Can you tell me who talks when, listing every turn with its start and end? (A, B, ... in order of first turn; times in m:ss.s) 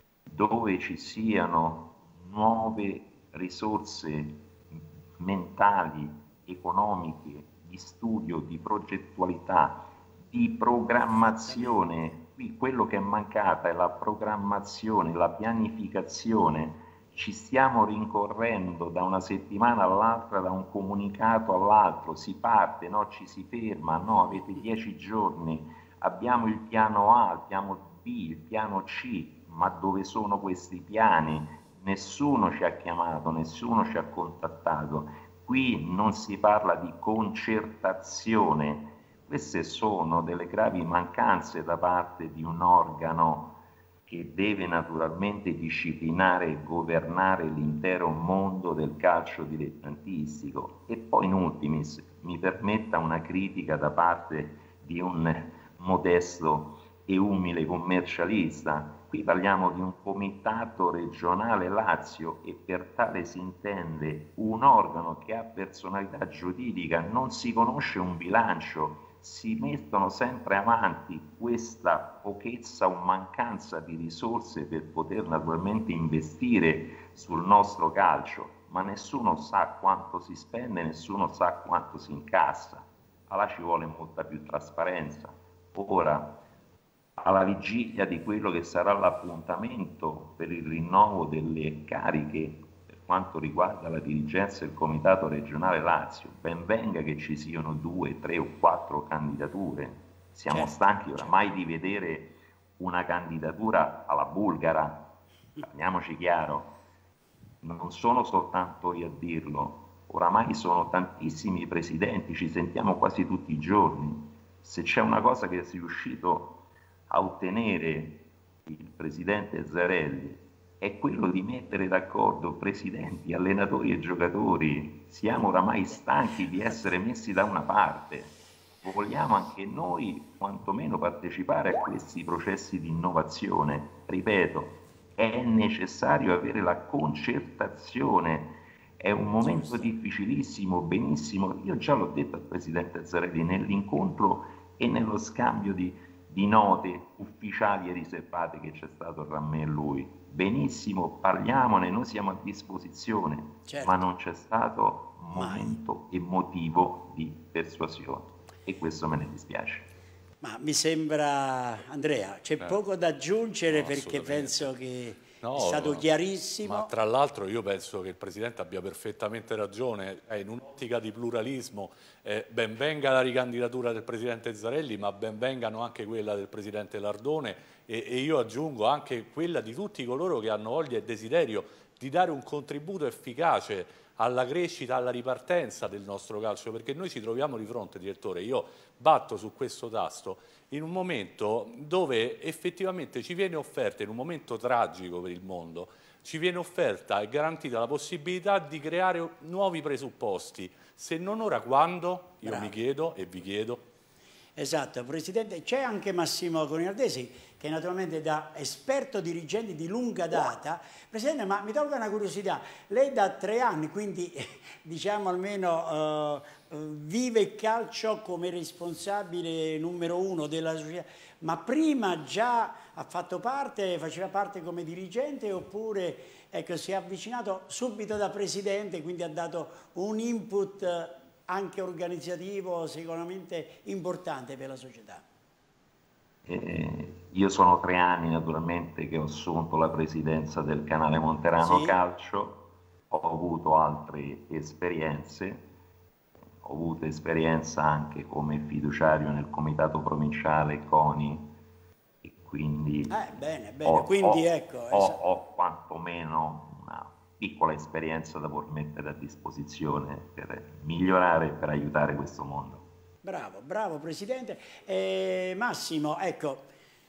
0:00.3-1:26.4 A
0:11.1-0:12.1 B
1:27.2-1:45.0 A
1:40.5-1:41.4 B
1:45.6-1:46.7 A
1:47.6-1:56.6 A
1:57.1-2:39.8 A
2:19.4-2:19.9 B
2:33.7-2:34.0 B
2:35.3-2:35.7 B
2:40.4-2:46.9 B
2:43.7-2:44.7 C
2:45.4-2:46.0 C
2:46.6-3:23.8 C
3:22.4-3:22.7 B
3:24.6-3:55.2 B
3:56.4-4:05.6 A
4:01.6-4:02.0 B
4:06.6-4:11.5 A
4:12.2-4:13.2 A
4:13.1-4:15.2 B
4:13.8-4:22.8 A
4:23.2-4:26.7 B